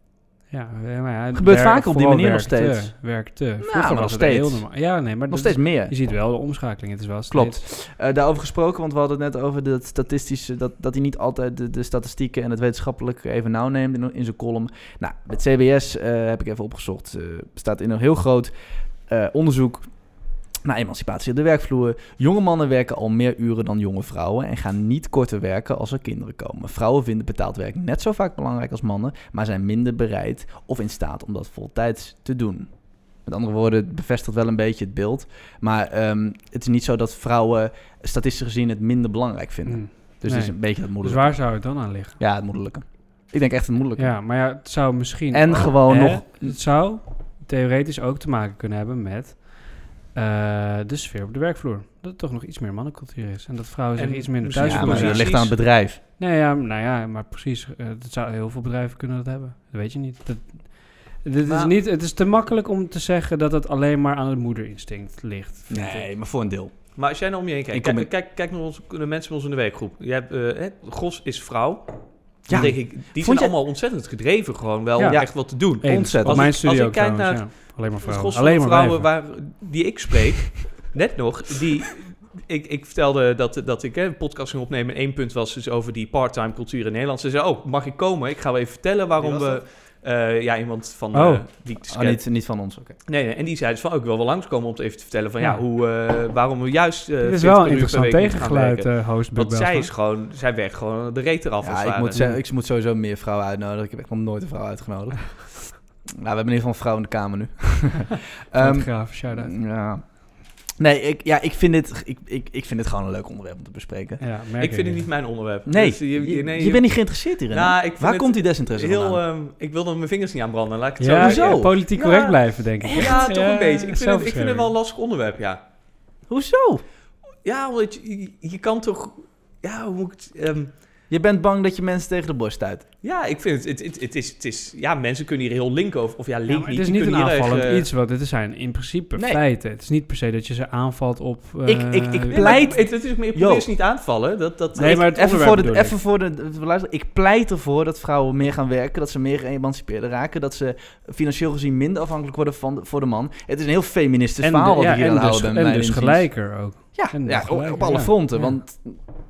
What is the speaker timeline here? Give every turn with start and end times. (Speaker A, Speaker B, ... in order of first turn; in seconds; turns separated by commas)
Speaker A: 0.5-7.6, Speaker B: 1.3-2.9, Speaker B: 3.6-4.7, Speaker B: 5.3-5.9, Speaker B: 7.3-18.5, Speaker B: 19.1-19.9, Speaker B: 20.6-41.4, Speaker A: 39.6-42.2, Speaker B: 42.2-44.2, Speaker A: 44.0-55.4, Speaker B: 45.3-46.5, Speaker C: 54.0-55.5, Speaker B: 54.6-56.0, Speaker A: 56.2-66.1, Speaker C: 61.5-61.8, Speaker B: 65.7-67.0, Speaker C: 66.9-92.2, Speaker B: 67.7-68.1, Speaker B: 72.5-73.5, Speaker A: 75.0-79.1, Speaker B: 75.0-76.5, Speaker B: 89.2-89.6, Speaker A: 91.1-91.5, Speaker B: 91.9-92.9, Speaker C: 93.0-102.2, Speaker A: 97.2-99.9, Speaker B: 101.6-114.2, Speaker A: 102.1-102.4, Speaker A: 108.5-109.5, Speaker A: 114.2-115.1, Speaker C: 114.6-116.9, Speaker B: 115.7-119.2, Speaker C: 117.5-125.6, Speaker A: 121.0-124.7, Speaker B: 121.2-121.7, Speaker B: 122.8-123.3, Speaker B: 126.3-126.8, Speaker C: 127.4-130.7, Speaker B: 131.1-132.8, Speaker C: 133.0-137.9, Speaker A: 136.5-142.6, Speaker B: 139.2-139.4, Speaker B: 141.7-143.7, Speaker C: 142.3-145.0, Speaker A: 144.8-145.9, Speaker B: 144.8-156.3, Speaker A: 154.4-158.5, Speaker B: 156.9-159.0